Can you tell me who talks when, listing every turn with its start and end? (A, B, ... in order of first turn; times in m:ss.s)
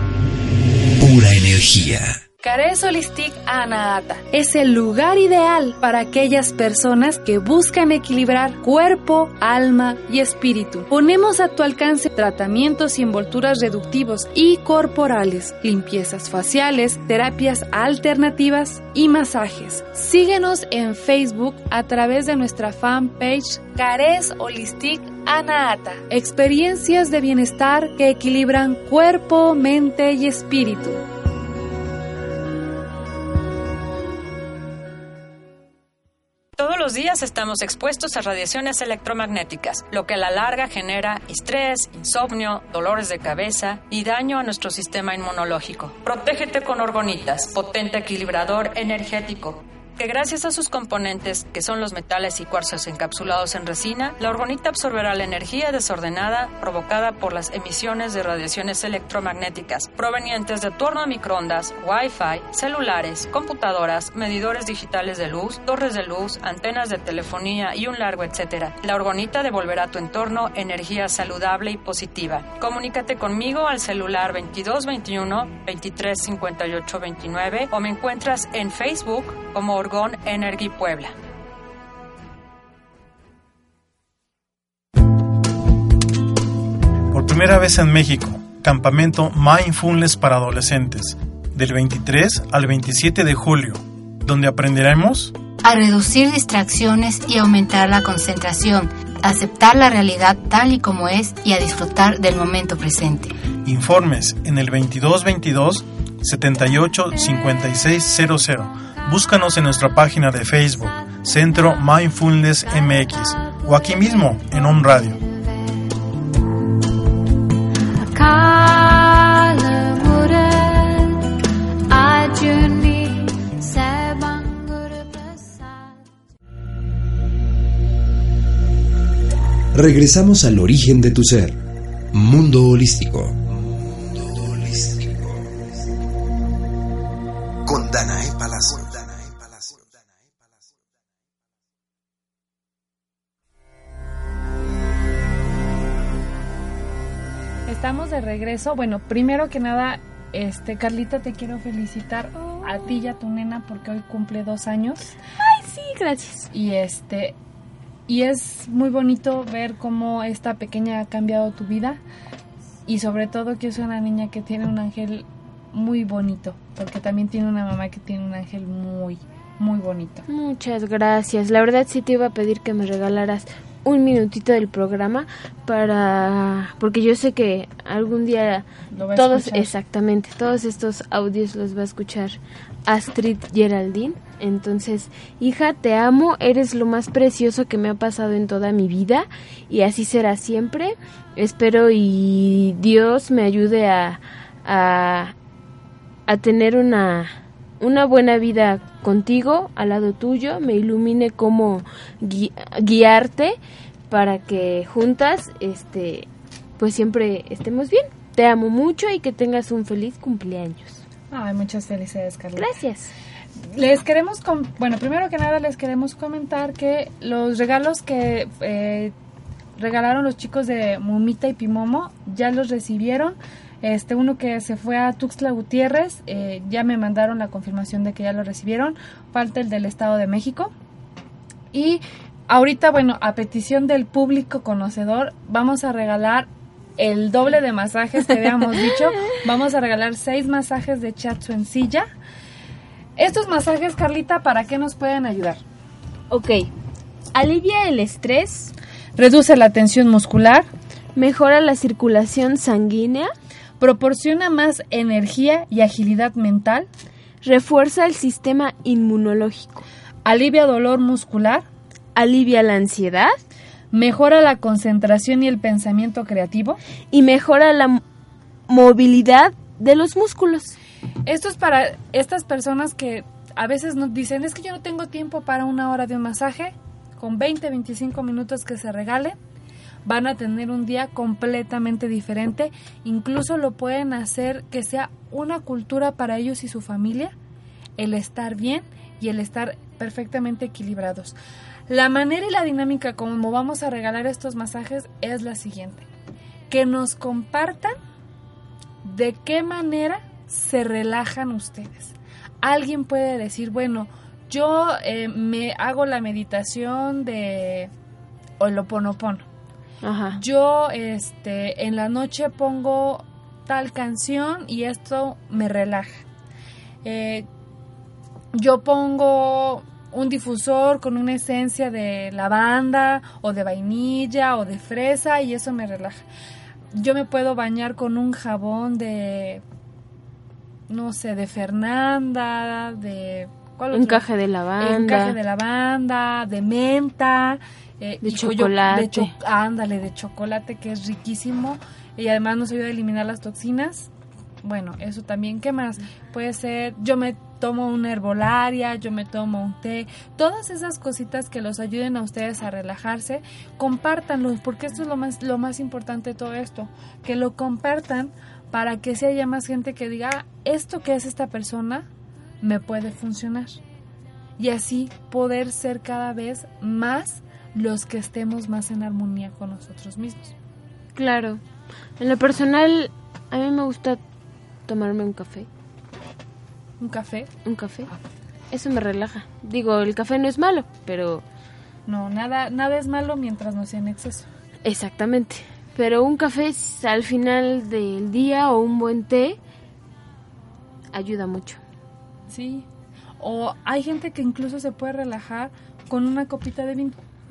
0:01.0-0:02.2 A
0:02.4-0:31.0 B
0:36.6-1:21.1 C
1:27.1-1:35.4 D
1:35.6-1:43.4 E
1:43.6-1:55.2 D
1:55.4-1:55.9 F
1:58.0-2:01.3 F
2:01.9-2:06.0 F
2:09.7-2:11.6 A
2:12.1-2:15.6 A
2:17.6-2:20.7 A
2:27.7-2:35.1 B
2:35.3-2:36.5 F
2:36.5-2:37.4 B
2:38.1-2:42.0 B
2:42.9-2:50.2 B
2:50.3-3:15.4 F
2:58.9-2:59.7 B
3:16.3-3:23.6 F
3:24.1-3:31.0 F
3:31.3-3:32.8 B
3:32.6-3:33.1 F
3:33.7-3:39.1 B
3:39.8-3:50.7 B
3:51.7-4:02.1 B
4:03.2-4:05.6 B
4:06.3-4:06.7 F
4:07.3-4:08.7 F
4:09.2-4:10.7 B
4:11.1-4:13.3 F
4:13.8-4:16.9 B
4:17.4-4:19.9 F
4:20.2-4:21.6 B
4:22.1-4:23.4 F
4:23.9-4:26.8 B
4:27.1-4:28.0 F
4:28.7-4:30.8 F
4:31.2-4:39.4 B
4:40.0-4:47.4 B
4:48.0-4:51.4 B
4:51.9-4:56.1 B
4:56.7-4:57.9 B
4:59.0-5:07.9 B
5:08.6-5:09.5 B
5:10.0-5:10.4 F
5:10.4-5:16.2 B
5:17.0-5:17.5 B
5:18.5-5:26.2 B
5:26.9-5:29.6 B
5:30.9-5:34.2 B
5:33.9-5:35.4 F
5:34.8-5:44.1 B
5:38.2-5:39.3 F
5:44.6-6:02.1 B
6:02.6-6:03.8 B
6:04.6-6:10.5 B
6:11.1-6:11.6 F
6:12.2-6:14.2 F
6:14.9-6:15.7 F
6:17.0-6:17.5 B
6:17.6-6:18.1 F
6:18.7-6:21.4 F
6:22.1-6:24.5 B
6:24.8-6:29.6 F
6:31.1-6:31.8 F
6:32.5-6:32.9 B
6:33.4-6:37.2 B